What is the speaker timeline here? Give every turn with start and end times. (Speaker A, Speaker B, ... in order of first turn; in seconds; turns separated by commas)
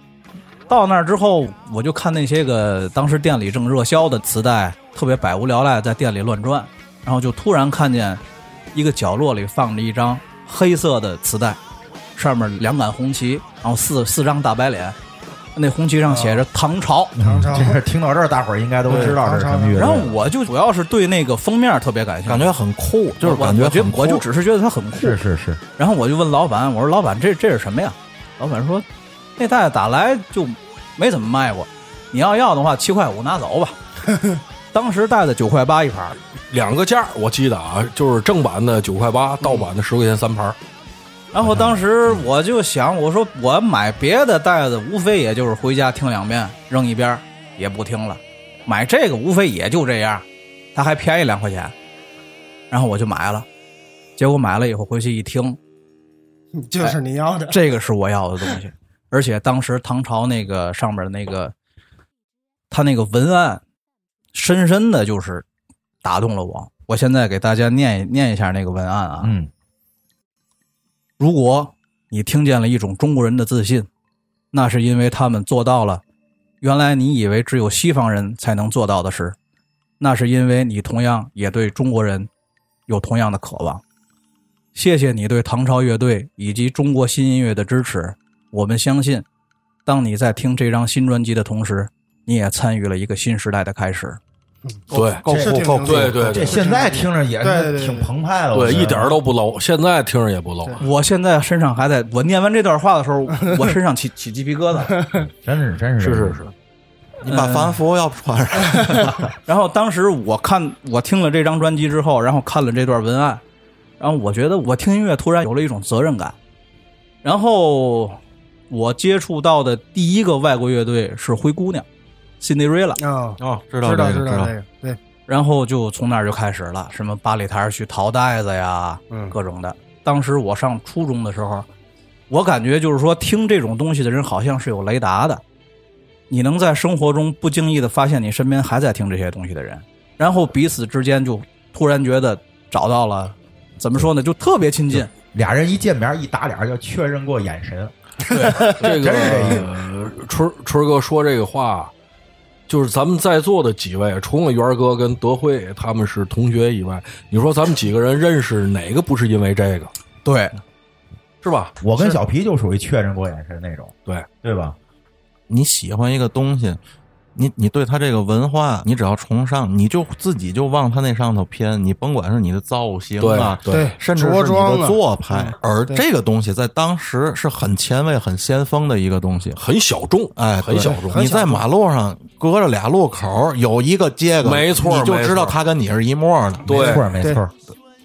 Speaker A: 0.7-8.2, Speaker A: 8.7-11.6, Speaker A: 12.2-15.0, Speaker A: 15.6-17.1, Speaker B: 16.1-16.4, Speaker C: 17.1-20.1, Speaker B: 17.2-17.8, Speaker B: 18.9-20.1, Speaker A: 19.7-22.5, Speaker D: 22.2-24.2, Speaker A: 23.2-25.2, Speaker C: 24.9-25.6, Speaker A: 25.8-28.8, Speaker A: 29.4-33.8, Speaker A: 34.7-36.2, Speaker E: 36.5-40.6, Speaker A: 41.3-51.7, Speaker C: 41.4-42.3, Speaker A: 52.7-53.5, Speaker A: 54.2-55.6, Speaker B: 56.5-57.6, Speaker A: 57.5-61.5, Speaker A: 62.7-63.6, Speaker A: 64.3-65.4, Speaker A: 66.0-69.3, Speaker C: 69.2-69.5, Speaker A: 71.2-73.9, Speaker A: 74.5-76.0, Speaker A: 76.6-79.3, Speaker A: 80.0-82.3, Speaker A: 82.9-83.8, Speaker A: 84.7-89.2, Speaker A: 89.8-94.2, Speaker B: 94.7-98.1, Speaker D: 94.9-95.2, Speaker E: 94.9-95.2, Speaker C: 95.2-99.2, Speaker E: 95.8-96.6, Speaker E: 98.5-100.8, Speaker A: 100.8-105.0, Speaker B: 104.9-105.2, Speaker C: 105.2-106.4, Speaker E: 106.0-106.5, Speaker D: 107.2-109.2, Speaker A: 107.3-107.8, Speaker A: 108.8-113.4, Speaker A: 114.0-116.3, Speaker A: 117.2-118.2, Speaker A: 118.7-121.8, Speaker A: 122.4-123.0, Speaker B: 123.0-125.0, Speaker D: 123.4-124.5, Speaker A: 125.3-131.7, Speaker A: 132.3-135.4, Speaker A: 136.3-145.1, Speaker C: 144.9-149.7, Speaker A: 148.2-148.7, Speaker E: 148.7-151.9, Speaker E: 152.7-159.9, Speaker A: 160.2-160.6, Speaker E: 161.4-162.2, Speaker C: 161.8-164.8, Speaker D: 165.5-166.8, Speaker D: 167.3-179.6, Speaker E: 173.2-173.8, Speaker B: 173.7-176.0, Speaker E: 179.6-181.3, Speaker D: 180.3-186.8, Speaker B: 180.8-181.6, Speaker E: 184.4-185.6, Speaker E: 186.7-187.1, Speaker B: 186.7-187.4, Speaker C: 186.7-187.5